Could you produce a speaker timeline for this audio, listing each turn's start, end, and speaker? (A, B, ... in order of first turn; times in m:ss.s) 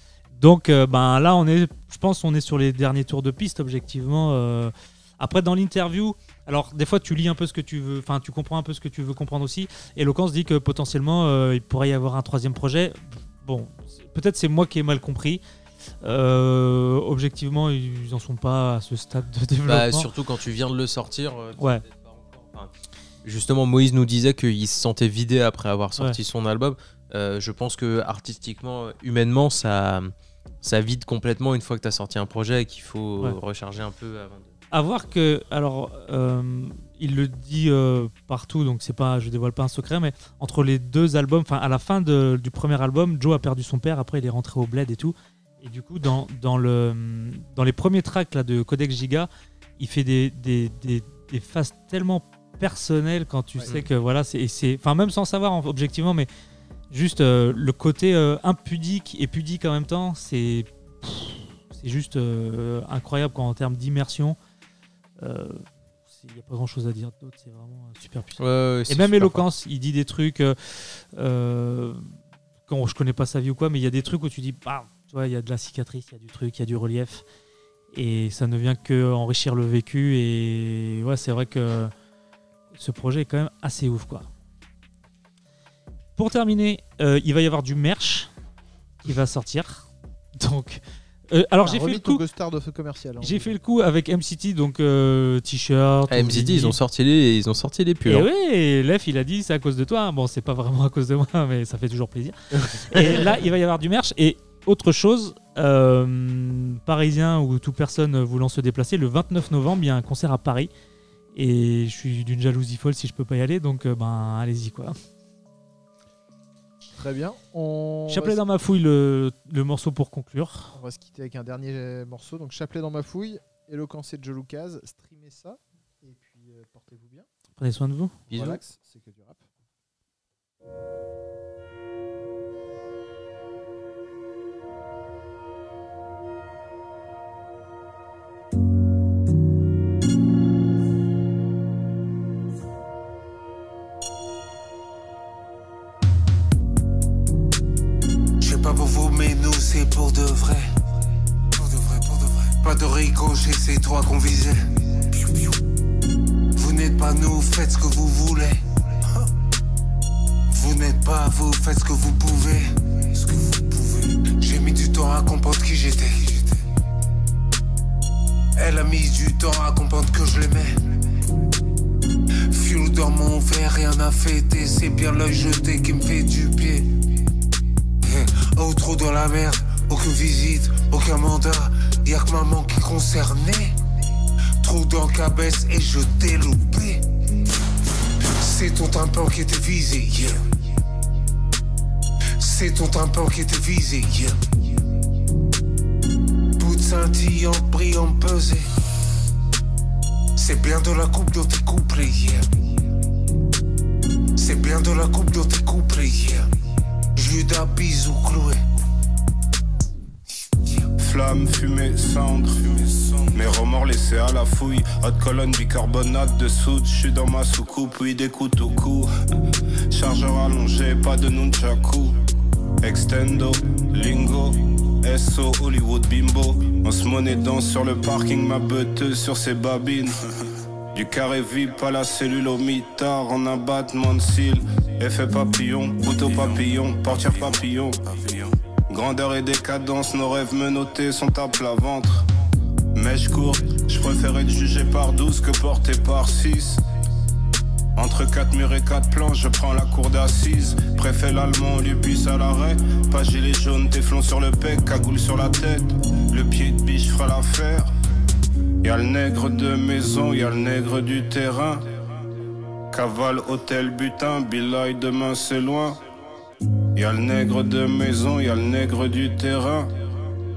0:00.4-0:15.4 A
0:16.0-0:20.1 A
0:19.7-0:22.7 B
0:21.6-0:21.8 A
0:23.2-0:34.5 B
0:34.7-0:56.3 A
0:56.9-1:04.4 A
1:05.2-1:12.1 A
1:08.4-1:09.4 B
1:12.7-1:17.2 A
1:17.9-1:21.9 A
1:22.7-1:24.3 A
1:26.2-1:28.3 A
1:29.0-1:32.2 A
1:31.6-1:33.6 C
1:33.2-1:36.8 A
1:36.1-1:38.3 B
1:38.0-1:50.7 A
1:42.5-1:43.3 B
1:51.3-1:55.0 A
1:56.9-1:58.4 C
1:58.1-2:00.8 A
2:00.7-2:07.3 C
2:07.6-2:08.2 A
2:08.3-2:09.4 C
2:08.3-2:08.6 B
2:28.4-2:30.7 D
2:31.5-2:35.5 D
2:36.6-2:39.3 D
2:40.5-2:46.6 D
2:48.6-2:50.7 D
2:52.5-2:57.0 D
2:58.0-3:03.7 D
3:04.6-3:07.0 D
3:08.3-3:10.5 D
3:12.4-3:14.4 D
3:16.6-3:18.7 D
3:20.4-3:22.4 D
3:24.4-3:26.4 D
3:27.2-3:28.6 D
3:31.0-3:39.1 E
3:39.9-3:42.1 E
3:42.8-3:50.1 E
3:50.9-4:02.2 E
4:02.9-4:06.8 E
4:08.0-4:17.9 E
4:18.8-4:21.8 E
4:22.9-4:26.0 E
4:27.0-4:29.9 E